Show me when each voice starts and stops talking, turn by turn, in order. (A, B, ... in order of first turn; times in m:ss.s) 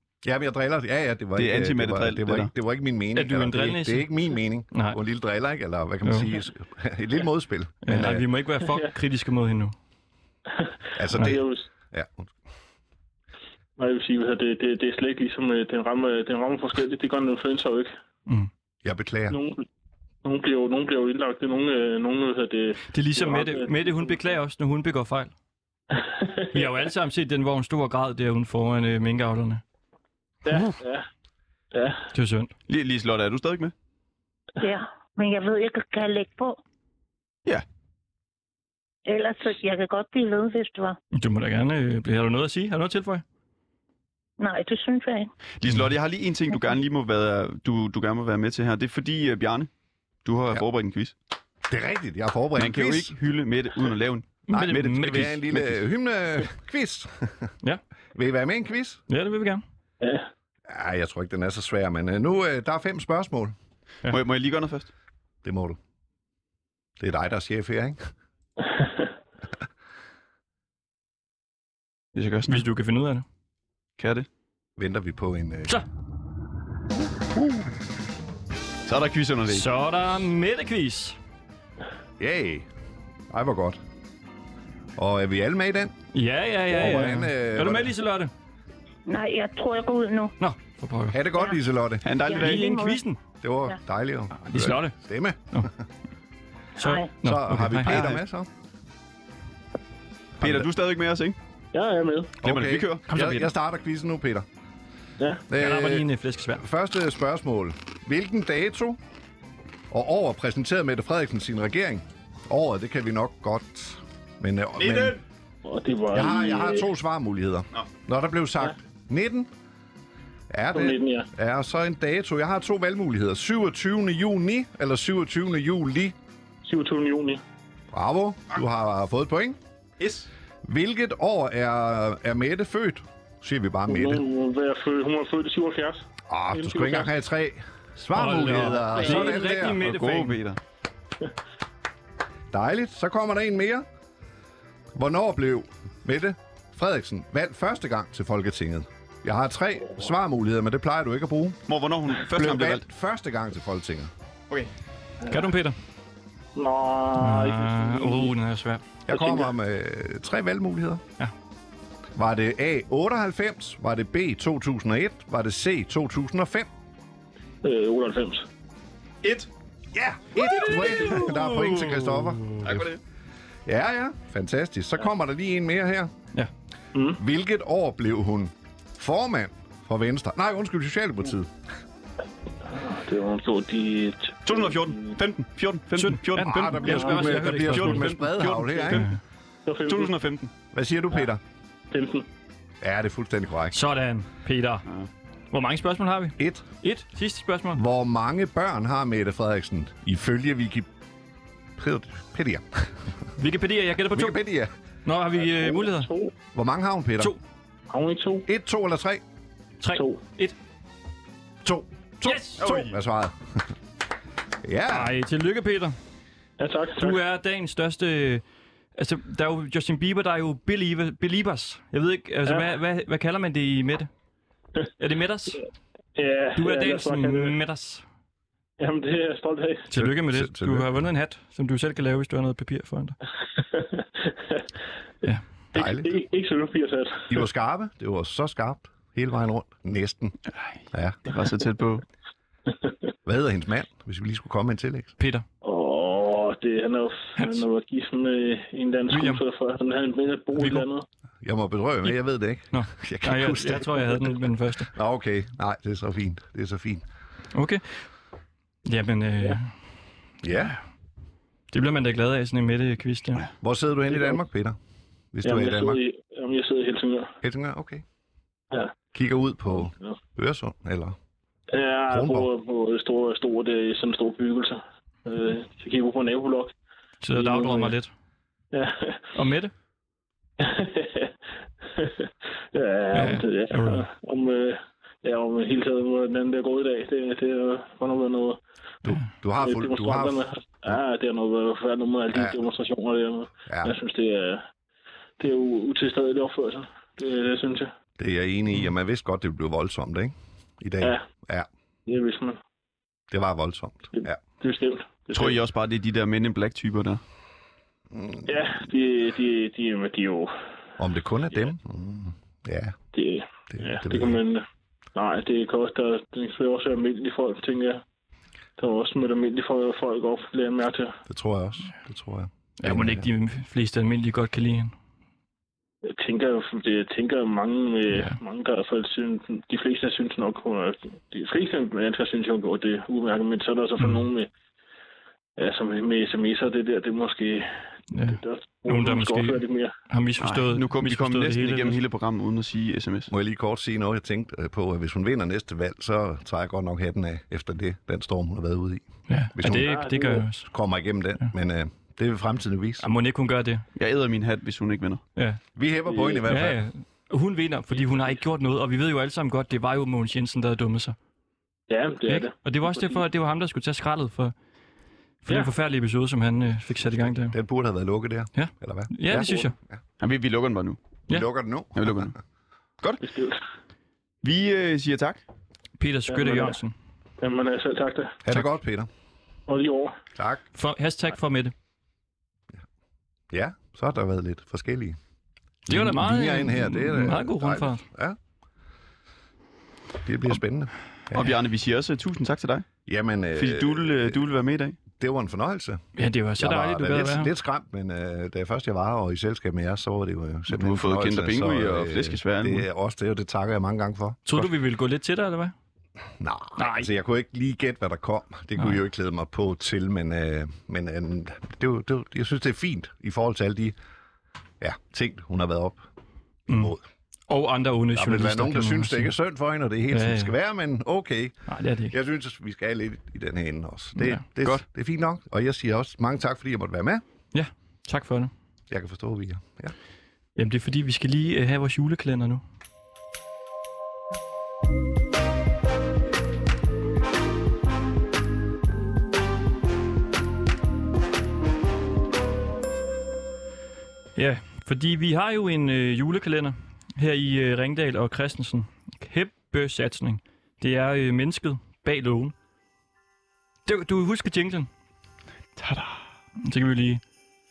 0:00.2-0:08.3 A
0:01.4-0:02.5 B
0:03.2-0:04.1 C
0:04.7-0:05.0 C
0:07.8-0:09.7 C
0:10.5-0:11.7 D
0:11.0-0:12.3 A
0:13.8-0:17.9 D
0:18.8-0:19.4 A
0:19.3-0:19.6 D
0:20.2-0:24.3 D
0:22.9-0:25.3 C
0:26.0-0:26.9 D
0:26.5-0:29.6 C
0:30.4-0:31.1 D
0:31.7-0:32.1 D
0:32.1-0:32.5 C
0:32.7-0:33.7 B
0:34.6-0:36.6 E
0:39.1-0:41.0 E
0:41.1-0:43.2 C
0:44.4-0:45.3 E
0:45.6-0:49.7 B
0:50.2-0:51.2 B
0:51.7-0:53.2 A
0:52.6-0:54.4 B
0:54.5-0:55.7 C
0:54.5-0:57.5 A
0:58.2-0:59.0 A
0:59.1-0:59.6 C
1:00.0-1:00.3 D
1:00.7-1:03.6 A
1:04.1-1:04.9 B
1:05.4-1:05.8 A
1:07.0-1:08.0 A
1:08.6-1:09.1 D
1:12.2-1:12.6 B
1:12.5-1:13.2 C
1:14.0-1:14.3 B
1:14.8-1:15.8 A
1:18.9-1:19.6 B
1:19.5-1:21.2 C
1:22.2-1:22.7 A
1:23.3-1:23.8 A
1:25.0-1:26.0 A
1:26.1-1:28.3 C
1:26.7-1:27.9 A
1:29.1-1:30.4 E
1:30.4-1:31.2 C
1:31.1-1:32.0 A
1:32.0-1:32.7 B
1:32.2-1:33.0 E
1:32.3-1:33.2 C
1:33.4-1:35.7 A
1:34.4-1:35.0 C
1:36.8-1:38.1 C
1:36.8-1:37.1 E
1:37.2-1:38.5 A
1:37.9-1:38.2 B
1:40.4-1:40.7 A
1:40.4-1:41.4 B
1:41.7-1:42.3 D
1:42.4-1:43.0 B
1:42.4-1:44.5 A
1:43.1-1:43.5 C
1:45.2-1:45.4 D
1:45.5-1:49.0 A
1:45.6-1:46.6 C
1:49.9-1:55.2 A
1:54.8-1:55.2 B
1:55.6-1:56.9 D
1:56.1-1:59.5 A
2:00.5-2:06.2 A
2:00.7-2:01.3 D
2:06.6-2:07.4 D
2:07.9-2:09.6 A
2:10.0-2:10.3 B
2:10.6-2:14.2 A
2:13.9-2:17.1 D
2:16.3-2:19.8 A
2:18.0-2:20.4 C
2:19.0-2:19.3 D
2:19.6-2:20.6 B
2:22.5-2:23.9 A
2:25.0-2:31.6 A
2:31.7-2:32.8 B
2:32.3-2:34.1 A
2:35.3-2:35.5 D
2:35.3-2:35.8 C
2:36.6-2:38.3 D
2:37.2-2:38.8 C
2:39.1-2:41.0 A
2:42.2-2:46.7 A
2:47.6-2:48.4 D
2:49.2-2:49.5 B
2:49.9-2:52.8 A
2:50.4-2:52.7 C
2:52.6-2:53.0 B
2:53.7-2:56.1 A
2:57.0-2:57.2 D
2:57.2-3:01.5 A
3:02.6-3:05.2 D
3:04.4-3:09.0 B
3:06.0-3:08.1 C
3:06.4-3:09.1 A
3:08.9-3:09.2 C
3:09.7-3:10.1 D
3:09.9-3:10.5 B
3:10.7-3:11.4 A
3:11.9-3:12.2 D
3:12.8-3:13.8 A
3:13.7-3:14.8 C
3:15.5-3:17.8 C
3:16.4-3:16.7 A
3:17.8-3:20.9 A
3:21.8-3:22.9 A
3:23.4-3:24.4 C
3:24.1-3:24.7 A
3:25.0-3:26.1 C
3:25.4-3:26.3 D
3:26.5-3:27.4 A
3:27.9-3:28.5 D
3:28.5-3:29.2 A
3:29.8-3:30.5 C
3:29.9-3:30.2 D
3:31.6-3:33.6 A
3:32.2-3:32.7 C
3:32.6-3:32.9 B
3:34.6-3:35.2 A
3:34.9-3:36.0 C
3:36.6-3:37.2 D
3:37.0-3:38.4 C
3:39.0-3:44.1 C
3:42.5-3:42.7 D
3:45.0-3:45.6 C
3:46.2-3:47.6 D
3:46.6-3:48.0 C
3:48.8-3:49.9 D
3:49.9-3:53.2 C
3:49.9-3:50.9 A
3:53.6-3:54.7 D
3:55.7-3:56.2 A
3:55.7-3:57.4 D
3:57.3-4:00.4 A
4:00.9-4:01.2 A
4:01.2-4:02.0 B
4:03.2-4:05.1 A
4:05.2-4:05.4 C
4:05.6-4:11.0 D
4:07.4-4:07.6 C
4:09.1-4:09.4 C
4:10.6-4:10.9 C
4:11.4-4:14.4 A
4:12.7-4:14.9 C
4:14.9-4:17.1 A
4:17.5-4:17.8 C
4:18.8-4:19.7 C
4:20.4-4:20.8 A
4:21.7-4:23.4 C
4:23.6-4:24.8 A
4:24.1-4:24.4 D
4:25.3-4:26.0 A
4:25.4-4:27.4 D
4:27.4-4:28.0 A
4:29.1-4:31.2 A
4:29.7-4:30.2 D
4:31.7-4:36.7 D
4:32.1-4:32.5 A
4:37.2-4:38.1 C
4:37.4-4:38.0 D
4:38.7-4:39.3 D
4:39.4-4:39.7 C
4:40.6-4:41.3 D
4:41.8-4:48.6 D
4:43.1-4:44.1 C
4:49.0-4:51.0 A
4:49.6-4:54.6 D
4:52.3-4:52.6 A
4:53.7-4:54.0 A
4:55.4-4:57.9 D
4:58.2-5:01.7 A
5:02.1-5:02.6 D
5:03.3-5:04.4 A
5:04.1-5:05.6 D
5:05.3-5:07.2 B
5:08.1-5:08.8 A
5:08.5-5:10.5 D
5:11.0-5:13.0 A
5:13.1-5:14.6 D
5:13.7-5:14.4 A
5:15.2-5:18.0 D
5:18.8-5:21.2 D
5:21.3-5:23.3 A
5:22.8-5:24.9 C
5:26.0-5:34.5 D
5:28.1-5:28.4 C
5:34.0-5:34.3 C
5:35.6-5:39.9 D
5:38.1-5:42.0 C
5:40.4-5:43.3 B
5:43.3-5:50.0 A
5:49.3-5:50.7 C
5:49.7-5:50.5 D
5:50.6-5:53.0 A
5:53.0-5:53.8 C
5:54.0-5:55.2 B
5:55.4-5:55.6 C
5:55.8-5:56.8 A
5:56.1-5:56.4 D
5:56.5-6:01.2 C
5:57.9-5:58.4 D
6:01.9-6:03.2 D
6:02.3-6:04.5 C
6:05.4-6:07.6 C
6:07.1-6:10.0 A
6:08.5-6:09.8 C
6:10.2-6:11.0 B
6:11.3-6:12.3 A
6:12.0-6:12.4 B
6:13.2-6:13.6 D
6:14.4-6:15.4 B
6:16.0-6:16.9 C
6:16.3-6:16.8 D
6:17.4-6:18.4 D
6:18.4-6:19.1 A
6:19.7-6:20.1 D
6:20.4-6:20.6 A
6:20.7-6:21.7 C
6:23.5-6:25.2 A
6:25.9-6:28.0 C
6:25.9-6:28.4 A
6:30.2-6:31.5 A
6:31.3-6:32.9 B
6:33.1-6:34.4 A
6:33.5-6:35.0 B
6:35.1-6:36.0 A
6:36.2-6:37.5 C
6:36.6-6:44.7 A
6:40.7-6:42.9 B
6:44.5-6:45.7 C
6:46.4-6:54.0 A
6:46.8-6:47.1 C
6:54.8-6:56.0 A
6:56.7-6:57.0 A
6:57.5-6:59.3 C
6:58.1-7:07.2 A
7:00.1-7:00.5 C
7:01.7-7:02.2 C
7:04.2-7:04.4 C
7:07.5-7:08.5 C
7:08.9-7:09.9 A
7:10.6-7:12.6 C
7:24.4-7:32.5 C
7:33.9-7:34.9 C
7:35.8-7:36.2 B
7:36.6-7:37.2 C